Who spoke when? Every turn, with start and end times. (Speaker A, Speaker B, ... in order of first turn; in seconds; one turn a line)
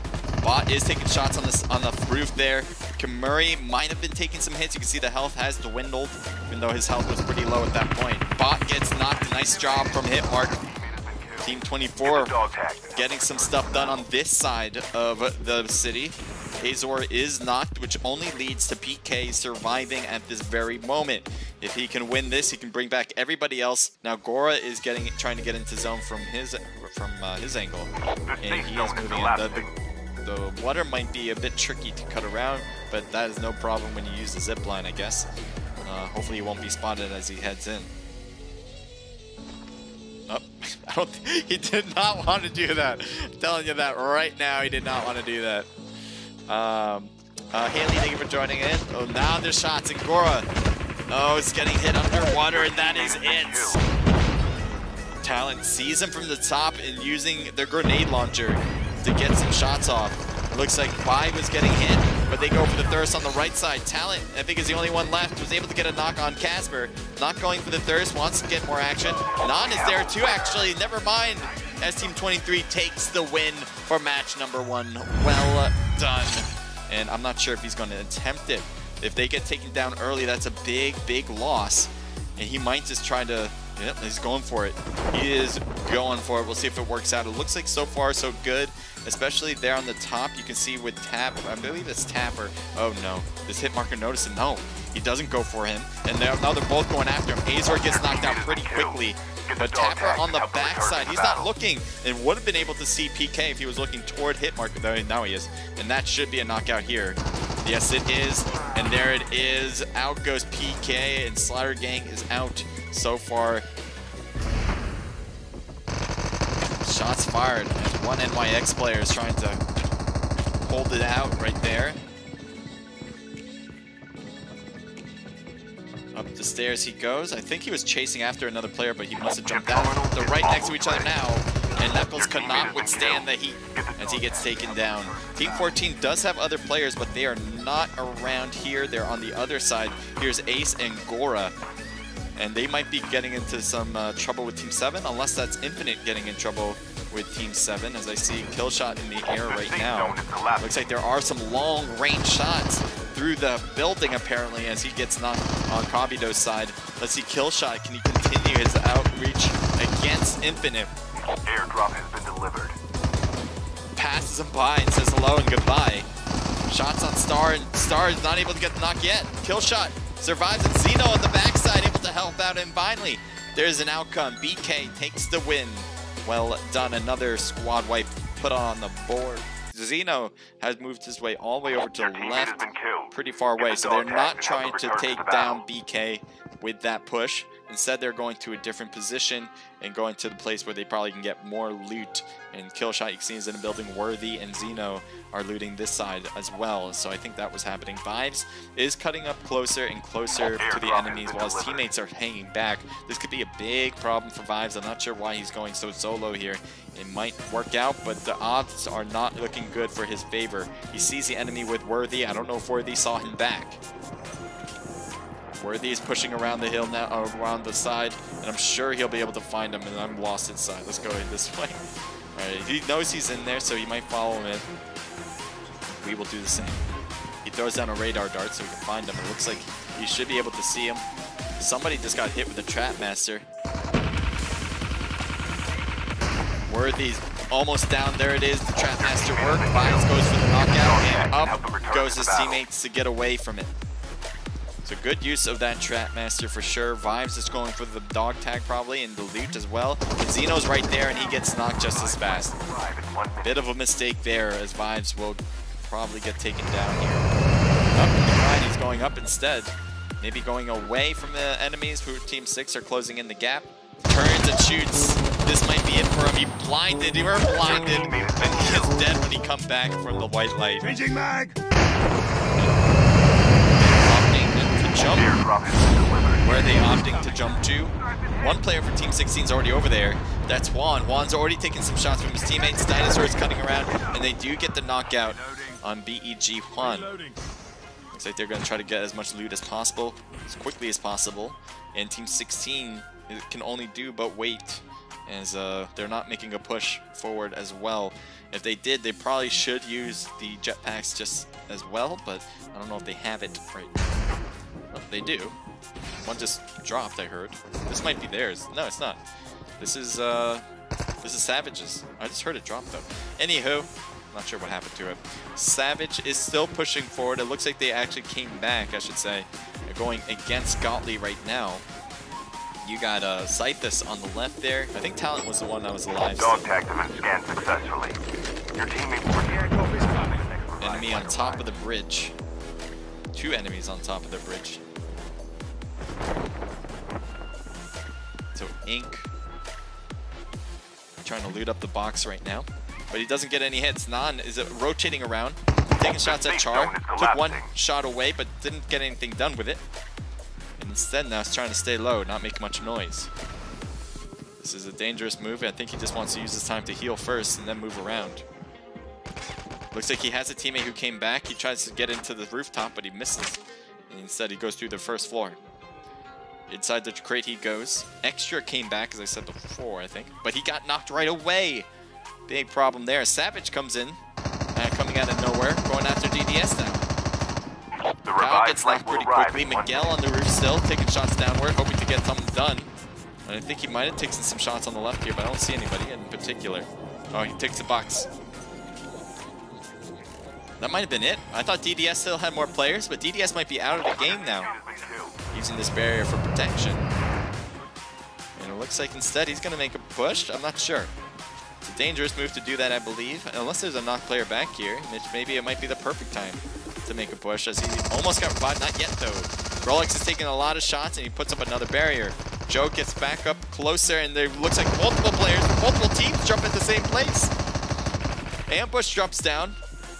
Speaker A: 0.4-10.6
Speaker B: 9.1-14.1
Speaker A: 11.4-12.3
Speaker A: 12.9-27.9
Speaker B: 28.3-29.7
Speaker A: 28.4-29.7
Speaker A: 30.2-35.3
Speaker A: 35.8-37.9
Speaker A: 40.3-45.7
Speaker A: 46.5-50.5
Speaker A: 51.1-53.8
Speaker B: 52.4-53.8
Speaker A: 55.2-113.6
Speaker B: 69.4-70.6
Speaker B: 97.8-101.5
Speaker A: 116.8-119.6
Speaker A: 120.6-122.0
Speaker A: 126.1-141.5
Speaker B: 129.2-131.1
Speaker B: 131.8-135.8
Speaker A: 142.4-160.9
Speaker B: 149.3-150.7
Speaker B: 161.4-162.8
Speaker A: 163.9-166.1
Speaker A: 166.7-213.8
Speaker B: 181.9-185.6
Speaker B: 200.4-201.9
Speaker A: 215.6-221.8
Speaker A: 222.3-224.7
Speaker A: 225.9-226.8
Speaker A: 227.4-231.0
Speaker A: 231.6-233.5
Speaker A: 236.7-243.7
Speaker B: 239.0-242.6
Speaker A: 244.8-252.5
Speaker B: 251.7-253.7
Speaker A: 253.4-257.3
Speaker A: 257.9-271.1
Speaker B: 267.7-269.0
Speaker A: 273.8-275.3
Speaker B: 275.1-276.7
Speaker A: 276.4-287.2
Speaker A: 288.1-304.0
Speaker A: 304.9-305.6
Speaker A: 306.2-309.2
Speaker A: 309.8-310.6
Speaker A: 311.2-321.8
Speaker A: 322.8-326.6
Speaker B: 326.4-328.2
Speaker B: 328.7-331.7
Speaker A: 330.8-332.3
Speaker A: 333.3-334.8
Speaker A: 338.5-339.3
Speaker A: 341.2-349.8
Speaker B: 346.2-347.7
Speaker A: 350.8-353.3
Speaker A: 354.6-358.4
Speaker A: 359.9-365.6
Speaker A: 366.7-371.9
Speaker A: 372.5-374.2
Speaker A: 374.7-377.1
Speaker B: 378.2-380.2
Speaker A: 378.4-382.9
Speaker A: 383.4-388.3
Speaker A: 390.8-394.7
Speaker B: 394.1-395.3
Speaker A: 395.5-397.1
Speaker A: 398.6-401.1
Speaker A: 401.8-417.5
Speaker A: 418.7-419.8